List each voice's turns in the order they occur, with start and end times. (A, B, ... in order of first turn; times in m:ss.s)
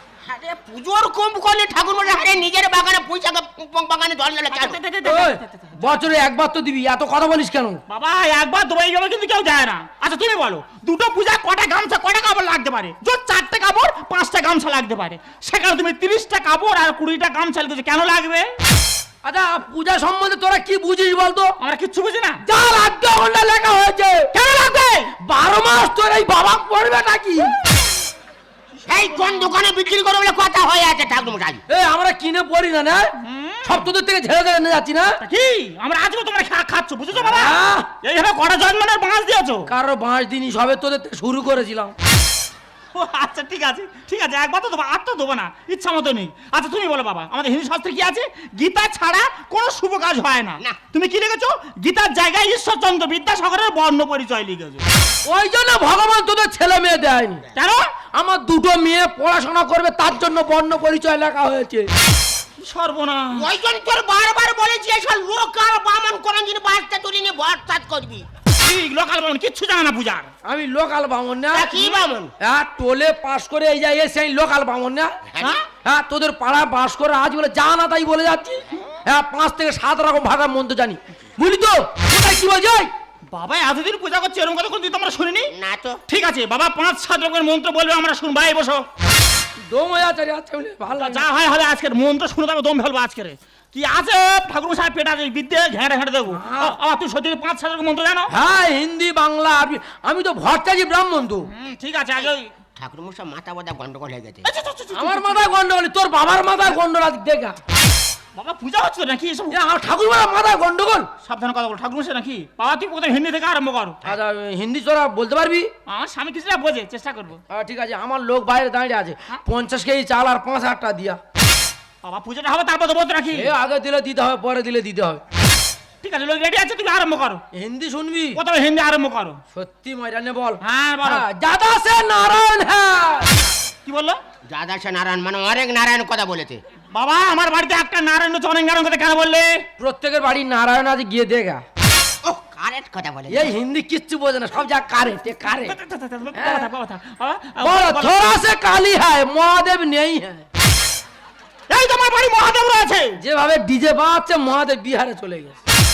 0:00.3-0:04.8 A
0:04.5-0:06.0 B
0:05.0-0:07.8 C
0:07.9-0:18.5 B
0:19.2-0:21.6 C
0:21.6-0:22.4 B
0:22.4-0:24.3 C
0:24.3-0:25.1 B
0:25.1-0:27.6 C
0:28.8-0:31.6 A
0:29.1-0:29.5 B
0:31.7-0:35.2 C
0:33.2-0:33.9 B
0:35.2-0:39.7 B
0:37.2-0:37.9 C
0:39.7-0:41.9 C
0:42.9-0:54.8 B
0:55.2-0:57.4 C
0:57.6-0:57.8 B
0:58.1-1:01.9 C
1:02.6-1:03.5 B
1:03.3-1:08.2 A
1:08.6-1:10.3 B
1:10.4-1:11.7 C
1:11.5-1:12.3 A
1:11.7-1:12.0 B
1:12.4-1:15.2 C
1:15.4-1:15.6 B
1:15.8-1:22.9 C
1:23.3-1:25.5 B
1:25.5-1:26.0 A
1:26.1-1:28.9 B
1:29.7-1:31.2 C
1:31.0-1:38.3 B
1:36.3-1:36.8 C
1:38.3-1:41.5 C
1:41.4-1:42.5 B
1:42.8-1:44.5 A
1:44.4-1:45.4 B
1:44.9-1:47.6 C
1:48.3-1:49.6 B
1:49.5-1:51.1 C
1:51.2-1:54.0 B
1:54.0-1:55.7 C
1:55.9-1:57.4 B
1:57.5-2:01.2 C
2:02.0-2:03.5 B
2:03.3-2:05.2 C
2:06.0-2:07.4 B
2:07.5-2:08.4 C
2:08.3-2:09.4 B
2:09.5-2:13.4 C
2:10.6-2:11.2 B
2:13.8-2:14.2 B
2:14.5-2:16.6 A
2:16.9-2:19.6 B
2:19.8-2:21.6 C
2:22.2-2:23.5 A
2:23.3-2:25.8 C
2:25.5-2:28.4 B
2:26.3-2:26.7 C
2:27.6-2:30.5 C
2:31.7-2:33.2 B
2:33.2-2:35.5 C